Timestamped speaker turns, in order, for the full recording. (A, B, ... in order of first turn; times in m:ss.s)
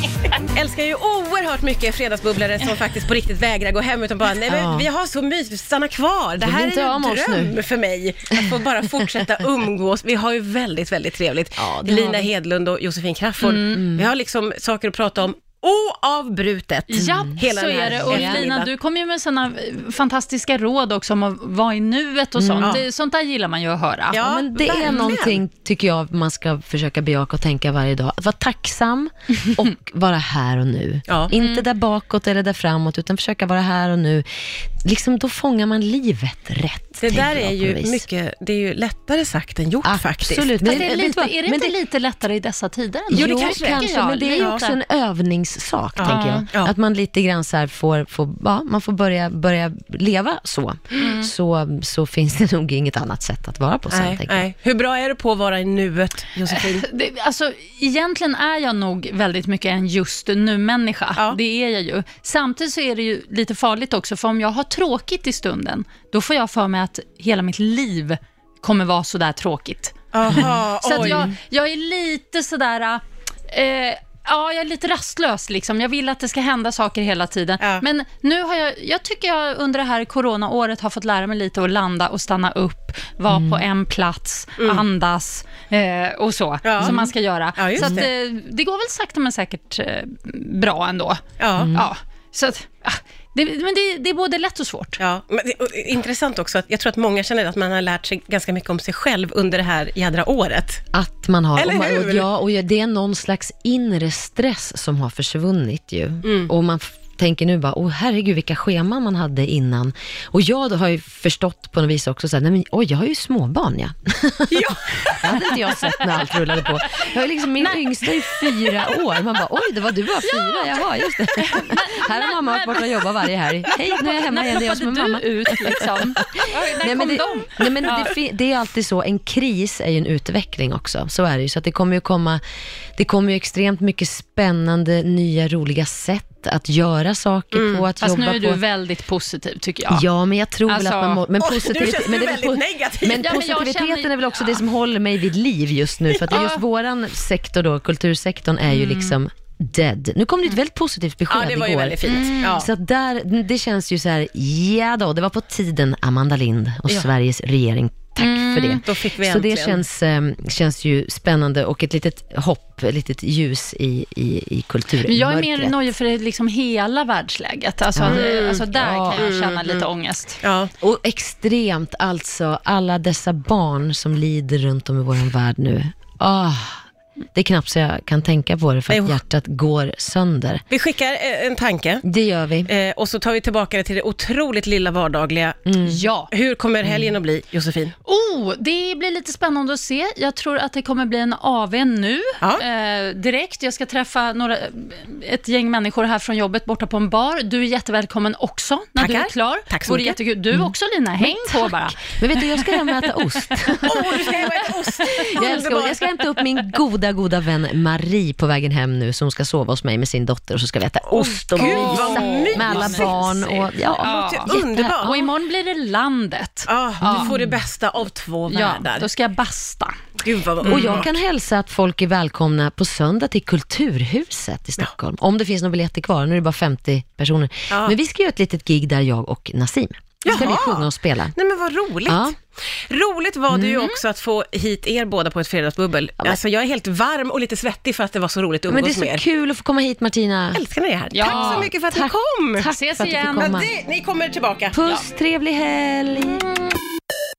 0:00.2-0:18.7 A
0:04.4-0:04.9 B
0:06.4-0:07.5 B
0:11.6-0:12.3 B
0:13.4-0:13.9 C
0:13.8-0:14.1 B
0:16.9-0:24.2 C
0:17.0-0:18.4 B
0:22.4-0:22.8 B
0:24.1-0:25.4 A
0:24.2-0:38.0 B
0:31.3-0:31.6 C
0:37.0-0:40.8 A
0:39.8-0:41.7 B
0:40.6-0:44.8 C
0:43.1-0:54.4 B
0:43.1-0:44.6 A
0:46.0-0:46.7 A
0:46.0-0:46.4 C
0:51.0-0:51.3 C
0:53.9-0:56.9 A
0:56.5-1:35.0 C
1:10.1-1:11.3 A
1:23.3-1:23.6 B
1:24.6-1:24.8 A
1:26.6-1:27.0 A
1:26.8-1:27.1 B
1:27.6-1:28.1 A
1:27.8-1:28.1 B
1:31.4-1:31.7 A
1:31.6-1:31.9 B
1:35.0-1:40.8 A
1:40.9-2:12.4 B
1:41.6-1:42.2 A
1:46.2-1:46.5 A
1:54.5-1:55.5 A
1:55.3-1:56.0 C
1:56.6-1:57.0 C
1:57.6-1:58.6 C
2:00.2-2:08.1 C
2:13.0-2:18.6 B
2:17.5-2:17.9 A
2:18.0-2:20.0 C
2:19.9-2:45.8 B
2:20.7-2:21.2 C
2:21.4-2:23.4 A
2:23.2-2:24.6 C
2:26.3-2:26.6 C
2:28.7-2:29.2 C
2:31.3-2:32.7 A
2:32.1-2:32.5 C
2:38.2-2:38.8 C
2:38.8-2:39.8 A
2:45.0-2:50.4 C
2:47.9-2:49.2 B
2:48.0-2:49.8 A
2:50.4-2:50.7 A
2:50.8-2:56.8 B
2:57.3-3:00.6 B
2:58.9-2:59.2 A
3:00.7-3:02.0 A
3:02.0-3:02.7 B
3:02.6-3:05.7 A
3:05.6-3:06.0 B
3:05.8-3:06.3 C
3:06.3-3:07.9 A
3:06.8-3:07.1 B
3:08.0-3:24.4 C
3:19.0-3:20.2 A
3:20.5-3:35.1 B
3:23.8-3:26.0 A
3:25.0-3:25.5 C
3:31.0-3:35.3 A
3:31.6-3:37.3 C
3:36.7-3:39.1 A
3:37.0-3:37.5 B
3:38.5-3:40.0 C
3:40.2-3:41.1 A
3:40.6-3:41.0 C
3:40.6-3:51.3 B
3:47.7-3:48.0 A
3:50.2-3:59.2 A
3:52.0-3:52.3 B
3:53.5-3:53.9 B
3:58.7-4:00.6 B
4:00.5-4:02.7 A
4:01.1-4:01.7 C
4:01.2-4:03.7 B
4:02.6-4:03.5 C
4:03.4-4:04.8 A
4:04.7-4:06.4 B